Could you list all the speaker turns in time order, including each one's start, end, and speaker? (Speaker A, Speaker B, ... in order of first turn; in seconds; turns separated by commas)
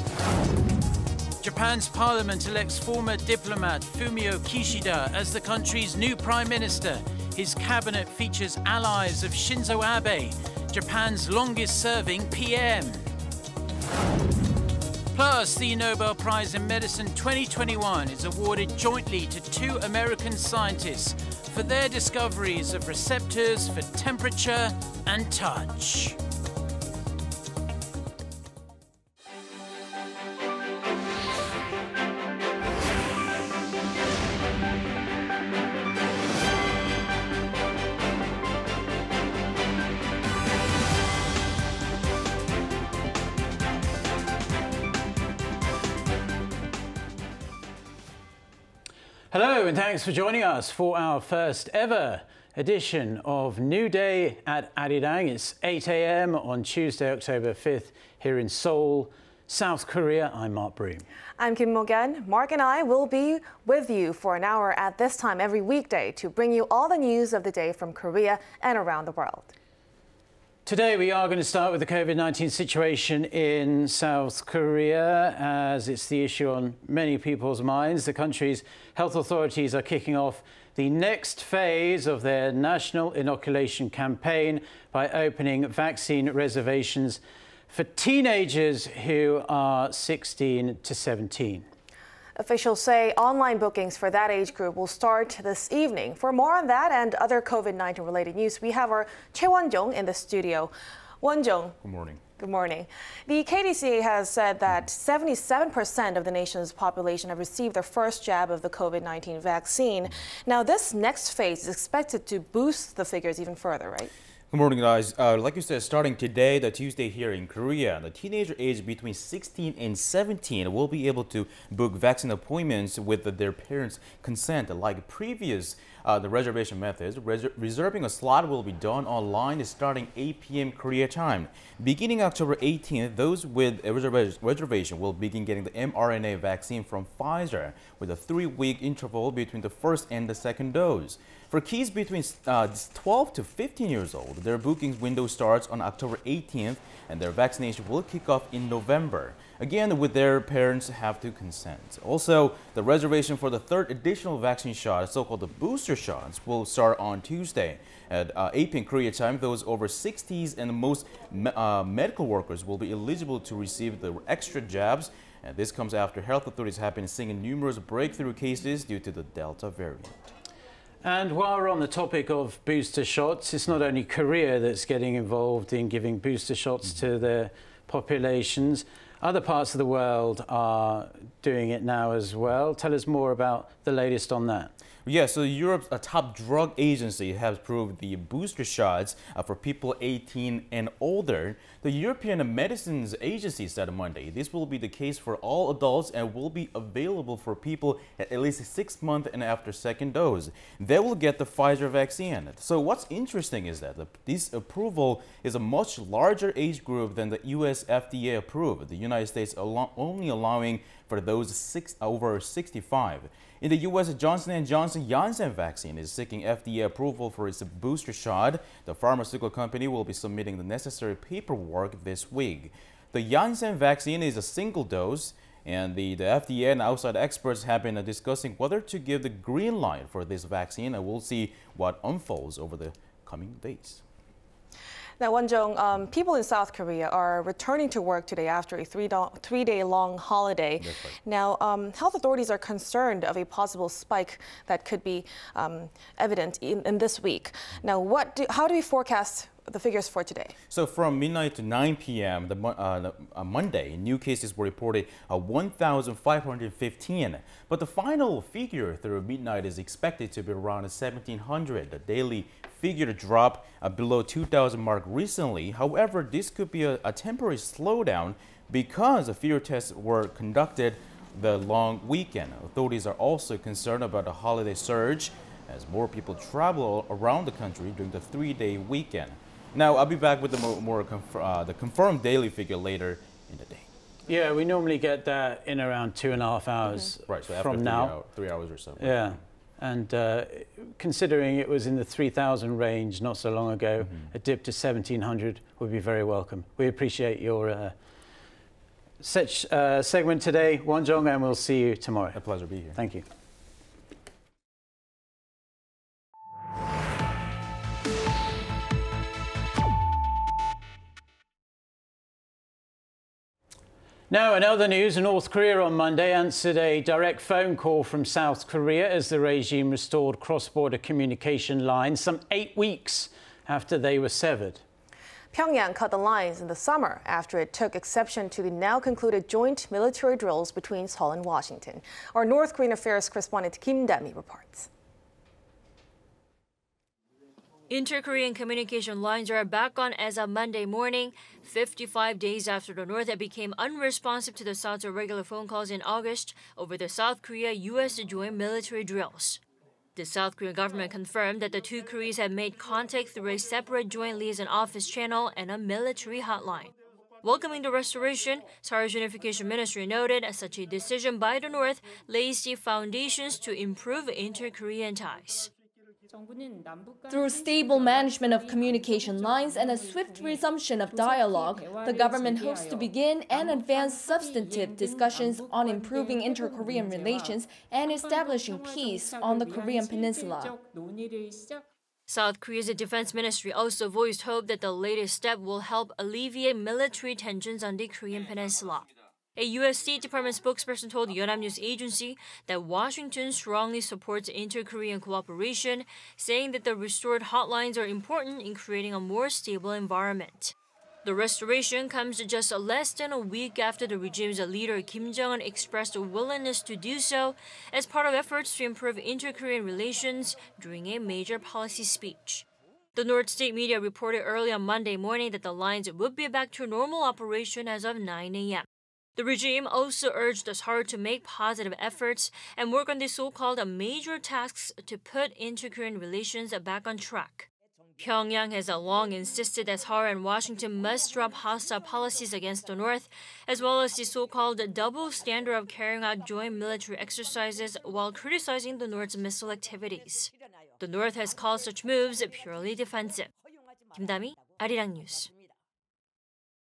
Speaker A: 1.4-13.1, Speaker A: 15.1-26.2, Speaker A: 49.3-61.0, Speaker B: 61.4-69.5, Speaker A: 70.7-91.7, Speaker B: 92.4-101.8, Speaker C: 101.8-102.2, Speaker B: 102.4-114.1, Speaker C: 114.5-170.2, Speaker A: 171.0-184.7, Speaker C: 185.0-234.0, Speaker B: 235.2-250.6, Speaker C: 240.8-241.2, Speaker C: 250.7-283.9, Speaker A: 284.3-288.1, Speaker C: 286.9-289.4, Speaker A: 289.0-297.9, Speaker C: 294.0-294.3, Speaker A: 299.2-302.4, Speaker C: 302.3-303.0, Speaker A: 302.9-303.2, Speaker A: 314.3-324.8, Speaker B: 325.5-334.9, Speaker D: 337.9-349.6, Speaker D: 350.1-365.7, Speaker E: 367.3-380.8, Speaker D: 382.3-400.7, Speaker D: 401.2-443.5, Speaker D: 444.1-445.5